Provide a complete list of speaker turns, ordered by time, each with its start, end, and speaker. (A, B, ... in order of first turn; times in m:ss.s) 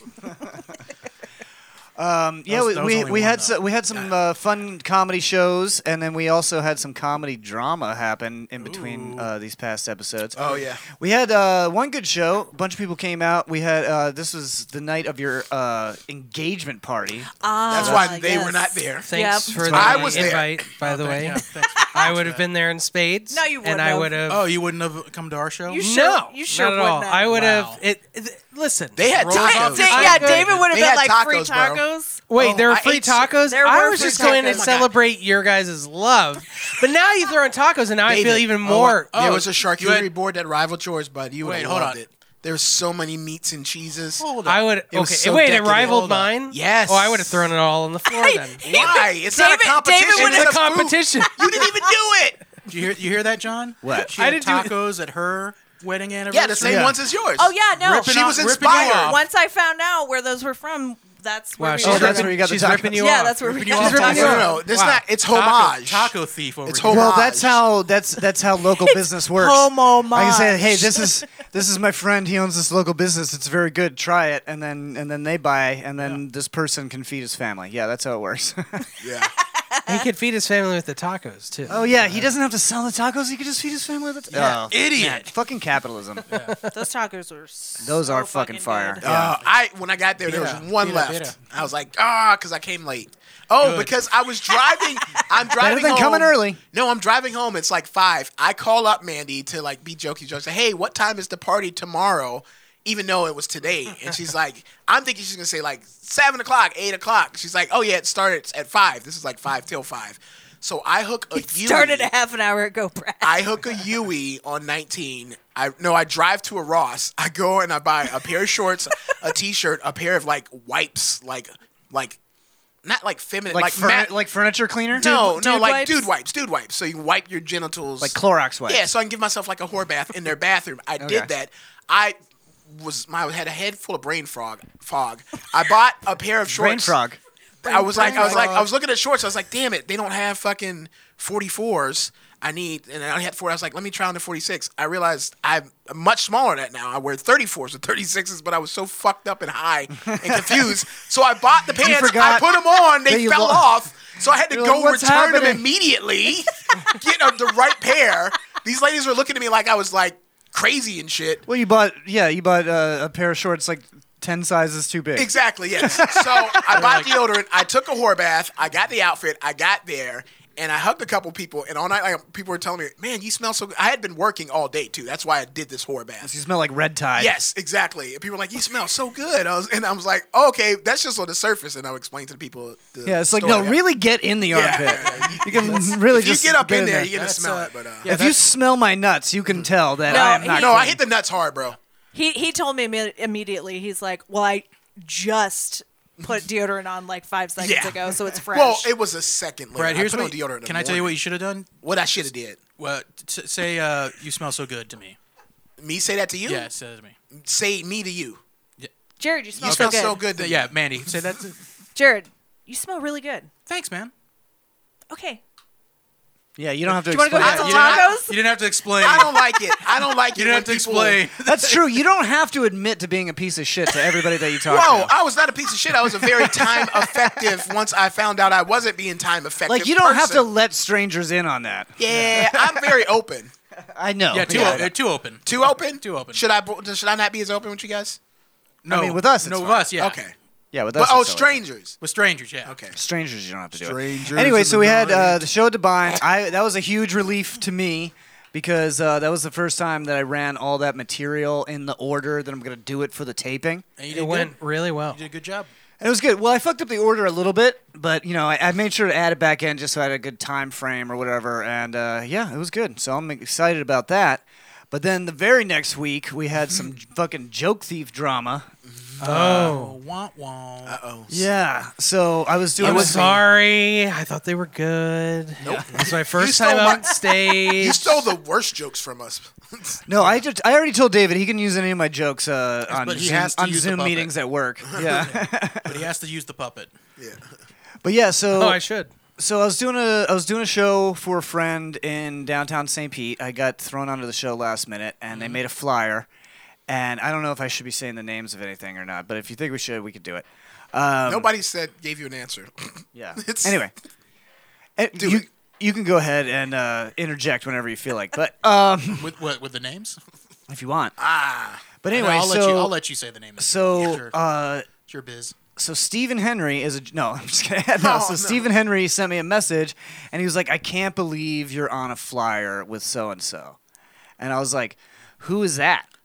0:02.0-0:18.0 A
0:02.5-0:04.1 B
0:08.6-0:09.3 B
0:10.4-0:10.8 C
0:17.4-0:20.0 D
0:17.7-0:19.1 C
0:19.0-0:21.4 E
0:19.5-0:20.2 A
0:19.6-0:20.6 C
0:20.0-0:22.4 B
0:21.7-0:22.1 D
0:21.9-0:24.4 E
0:23.3-0:24.2 D
0:24.3-0:25.8 B
0:25.7-0:27.3 D
0:25.8-0:29.1 E
0:27.3-0:27.8 B
0:29.0-0:33.4 C
0:29.1-0:30.7 B
0:29.3-0:32.3 D
0:29.8-0:30.5 E
0:32.3-0:39.1 E
0:33.4-0:34.7 D
0:33.9-0:34.9 C
0:38.1-0:44.2 C
0:39.1-0:40.1 B
0:41.4-0:42.0 B
0:44.2-0:44.6 B
0:44.4-0:48.7 E
0:44.9-0:45.8 A
0:45.7-0:46.3 B
0:46.5-0:47.4 C
0:48.1-0:50.7 D
0:48.6-0:52.4 C
0:50.1-0:51.4 E
0:51.2-0:51.8 D
0:52.7-0:57.0 B
0:53.8-0:54.2 A
0:54.2-0:54.7 E
0:56.3-0:59.2 C
0:56.6-0:57.0 A
0:57.4-0:58.1 D
0:57.7-0:59.2 B
0:58.8-1:02.4 D
1:01.6-1:05.0 E
1:01.8-1:03.2 A
1:03.0-1:04.6 D
1:03.4-1:04.5 B
1:03.8-1:04.4 A
1:04.0-1:06.1 C
1:05.3-1:07.2 B
1:06.6-1:07.6 C
1:06.8-1:18.8 A
1:08.9-1:11.2 D
1:19.0-1:19.3 C
1:19.6-1:20.0 D
1:19.8-1:21.8 E
1:21.7-1:26.2 A
1:21.8-1:22.2 B
1:24.3-1:25.3 B
1:26.3-1:26.7 E
1:26.7-1:29.0 D
1:27.8-1:29.4 A
1:29.0-1:52.1 C
1:30.2-1:31.4 B
1:33.6-1:34.0 B
1:35.5-1:36.6 A
1:51.3-1:53.7 D
1:53.2-2:02.2 C
2:02.8-2:04.1 C
2:03.5-2:05.3 A
2:04.9-2:08.2 C
2:05.0-2:06.1 D
2:08.0-2:08.9 A
2:08.7-2:12.2 C
2:11.0-2:11.3 A
2:12.7-2:17.0 C
2:16.5-2:18.6 A
2:17.6-2:41.4 C
2:17.9-2:18.7 B
2:30.0-2:30.7 A
2:31.7-2:33.7 A
2:34.5-2:35.6 A
2:41.5-2:47.1 A
2:45.2-2:56.3 C
2:46.7-2:47.1 B
2:56.2-2:57.3 A
2:57.2-3:03.8 C
3:03.0-3:07.1 A
3:04.5-3:08.1 C
3:04.7-3:05.8 B
3:07.1-3:08.4 B
3:08.0-3:11.0 A
3:10.1-3:10.9 D
3:10.1-3:11.8 C
3:12.1-3:18.9 D
3:17.6-3:21.2 C
3:19.7-3:21.7 B
3:21.8-3:22.6 C
3:22.8-3:25.2 B
3:25.8-3:26.7 C
3:26.4-3:27.1 B
3:27.3-3:28.4 C
3:29.2-3:30.2 D
3:29.6-3:30.7 C
3:29.6-3:31.6 B
3:31.9-3:33.5 D
3:33.7-3:34.1 B
3:35.1-3:35.4 D
3:36.6-3:38.0 A
3:37.0-3:38.4 D
3:37.4-3:39.4 B
3:37.4-3:38.1 C
3:39.0-3:41.2 C
3:40.3-3:41.8 B
3:41.4-3:45.1 A
3:44.6-3:50.5 C
3:46.2-3:47.6 A
3:49.7-3:53.1 A
3:52.0-3:53.5 C
3:53.9-3:54.9 A
3:54.3-3:56.4 B
3:54.5-3:54.9 C
3:55.4-3:58.2 C
3:58.8-4:00.2 B
3:58.9-3:59.9 A
4:00.0-4:00.3 C
4:00.7-4:01.5 A
4:01.0-4:02.0 C
4:02.0-4:02.7 B
4:02.6-4:03.0 C
4:02.9-4:13.8 A
4:14.0-4:15.7 B
4:14.1-4:15.2 E
4:16.0-4:28.7 A
4:28.9-4:29.2 C
4:29.2-4:31.0 B
4:29.2-4:30.0 E
4:29.2-4:29.7 A
4:30.8-4:31.4 C
4:31.3-4:33.4 A
4:32.8-4:38.2 E
4:32.8-4:33.2 B
4:32.8-4:33.3 C
4:35.6-4:35.9 A
4:35.6-4:40.0 C
4:40.1-4:45.9 A
4:42.9-4:44.3 B
4:44.9-4:45.3 C
4:45.0-4:46.9 B
4:47.2-4:47.5 C
4:48.0-4:48.8 A
4:48.5-4:49.1 E
4:49.4-4:56.3 A
4:55.3-4:55.6 B
4:56.9-5:01.5 A
5:01.3-5:03.8 C
5:03.1-5:03.9 A
5:05.0-5:09.3 A
5:05.2-5:05.4 C
5:09.2-5:10.2 B
5:10.7-5:11.1 A
5:11.2-5:11.8 C
5:12.0-5:12.9 A
5:12.1-5:14.4 B
5:13.6-5:14.9 A
5:15.0-5:15.5 B
5:15.8-5:23.8 A
5:18.0-5:18.7 C
5:24.4-5:26.1 A